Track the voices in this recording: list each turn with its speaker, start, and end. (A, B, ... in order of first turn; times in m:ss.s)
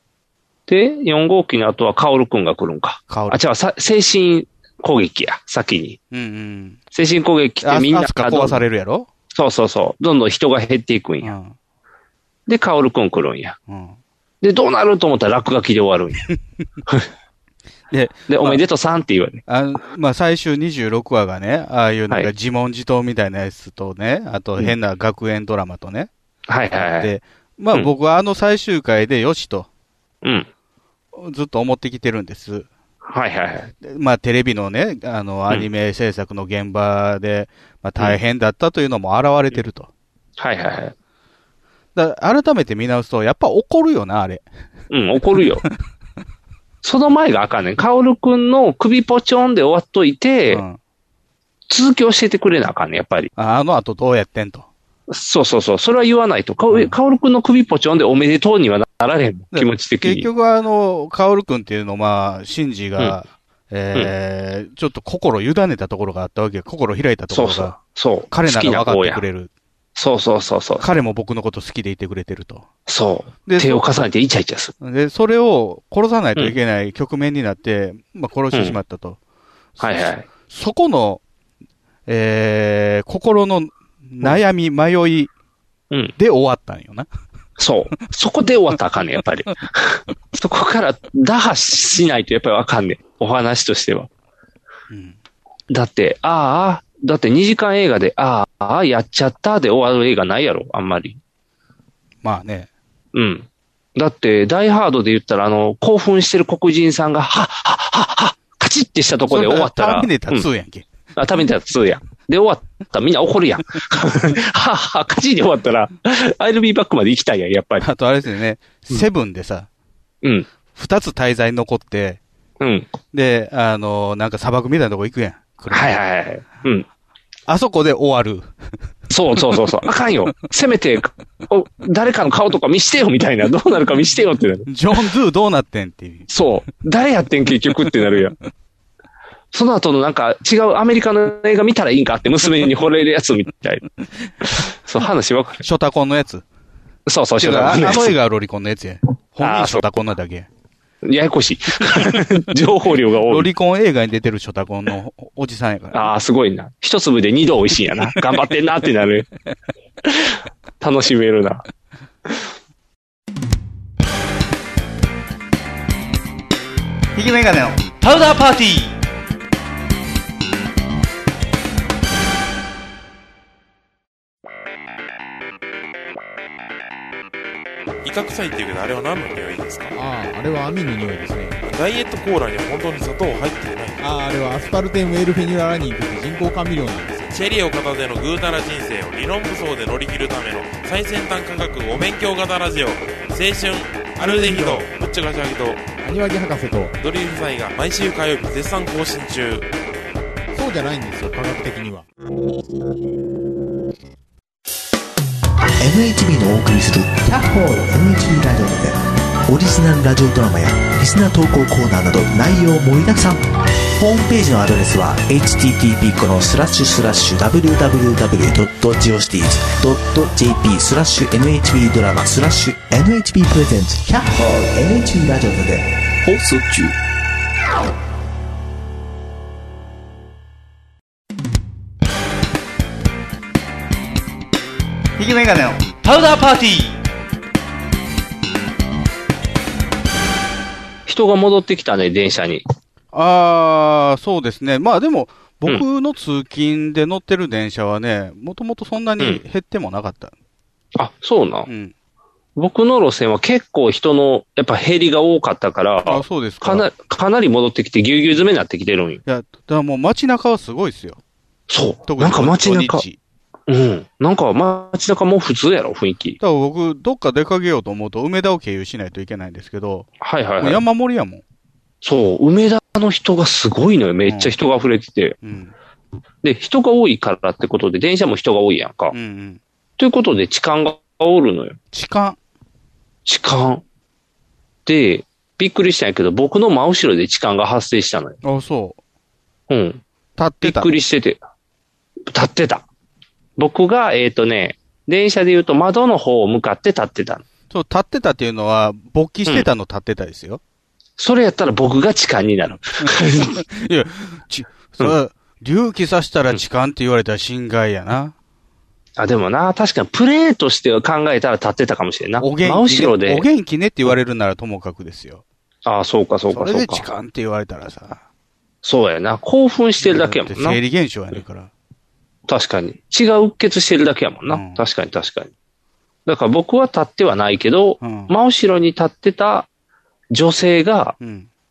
0:00.7-0:06.0 A
0:03.1-0:03.4 B
0:06.1-0:06.8 B
0:06.9-0:08.6 A
0:07.6-0:09.1 B
0:09.3-0:11.3 A
0:11.2-0:11.6 B
0:12.5-0:13.6 A
0:13.7-0:14.0 B
0:14.4-0:16.2 A
0:17.9-0:18.6 B
0:18.3-0:19.4 A
0:19.5-0:26.1 B
0:26.5-0:27.1 A
0:26.8-0:29.7 B
0:31.2-0:32.7 B
0:33.1-0:33.7 A
0:33.8-0:39.9 B
0:40.4-0:40.9 A
0:42.0-0:44.4 B
0:44.9-0:45.6 A
0:46.8-0:50.6 A
0:50.5-0:50.8 B
0:51.7-0:53.3 A
0:53.4-0:54.7 B
0:55.1-1:00.3 A
0:56.7-0:57.0 B
0:59.5-1:07.8 B
1:07.3-1:09.2 A
1:08.3-1:09.5 B
1:10.0-1:10.9 A
1:10.8-1:12.7 B
1:12.9-1:14.7 A
1:13.5-1:13.9 B
1:14.8-1:19.2 B
1:19.8-1:21.2 B
1:19.8-1:20.3 A
1:22.1-1:25.3 B
1:26.2-1:27.1 B
1:27.6-1:34.1 A
1:34.9-1:35.2 B
1:35.7-1:41.2 A
1:42.2-1:42.7 B
1:43.1-1:50.4 A
1:49.3-1:50.8 B
1:51.2-1:57.9 A
1:57.8-1:59.7 B
2:00.7-2:02.2 B
2:02.6-2:02.9 A
2:03.1-2:06.0 B
2:05.7-2:06.8 A
2:07.5-2:08.5 B
2:09.1-2:14.8 A
2:14.7-2:16.3 B
2:16.3-2:18.4 A
2:19.5-2:23.8 A
2:24.4-2:25.6 A
2:25.6-2:26.4 B
2:27.1-2:28.2 A
2:27.4-2:30.5 B
2:29.4-2:29.8 A
2:31.0-2:33.5 A
2:33.3-2:36.1 B
2:35.9-2:39.3 A
2:40.1-2:41.6 A
2:47.2-2:49.0 B
2:58.0-3:00.0 C
2:59.9-3:01.6 D
3:01.6-3:04.1 C
3:04.0-3:07.3 D
3:07.3-3:15.8 C
3:14.2-3:14.9 D
3:16.0-3:17.0 D
3:17.0-3:19.7 C
3:20.5-3:22.1 D
3:25.8-3:33.4 E
3:34.0-3:45.9 E
3:55.2-3:57.0 B
4:01.1-4:02.6 A
4:03.1-4:10.3 B
4:11.0-4:11.7 A
4:11.7-4:11.9 B
4:12.6-4:19.2 A
4:16.1-4:16.9 B
4:19.3-4:21.2 B
4:21.7-4:23.0 A
4:22.1-4:23.2 B
4:23.7-4:26.4 A
4:26.4-4:30.1 B
4:30.2-4:30.8 A
4:30.6-4:31.4 B
4:32.0-4:35.4 A
4:34.3-4:34.5 B
4:35.4-4:35.7 B
4:36.4-4:39.2 A
4:39.1-4:39.6 B
4:40.0-4:41.8 A
4:41.9-4:42.4 B
4:43.3-4:43.8 A
4:44.9-4:48.4 A
4:48.4-4:49.0 B
4:49.7-4:50.0 A
4:50.4-4:50.9 B
4:50.6-4:51.4 A
4:52.3-4:52.8 A
4:53.6-4:57.4 A
4:57.7-5:00.6 B
5:01.2-5:03.6 A
5:03.0-5:08.3 B
5:09.2-5:13.5 A
5:12.4-5:15.4 B
5:15.8-5:17.1 A
5:16.5-5:18.2 B
5:18.8-5:20.8 A
5:20.0-5:21.7 B
5:22.5-5:25.5 A
5:24.5-5:24.8 B
5:26.3-5:29.7 A
5:28.0-5:28.3 B
5:30.3-5:31.2 A
5:31.2-5:31.5 B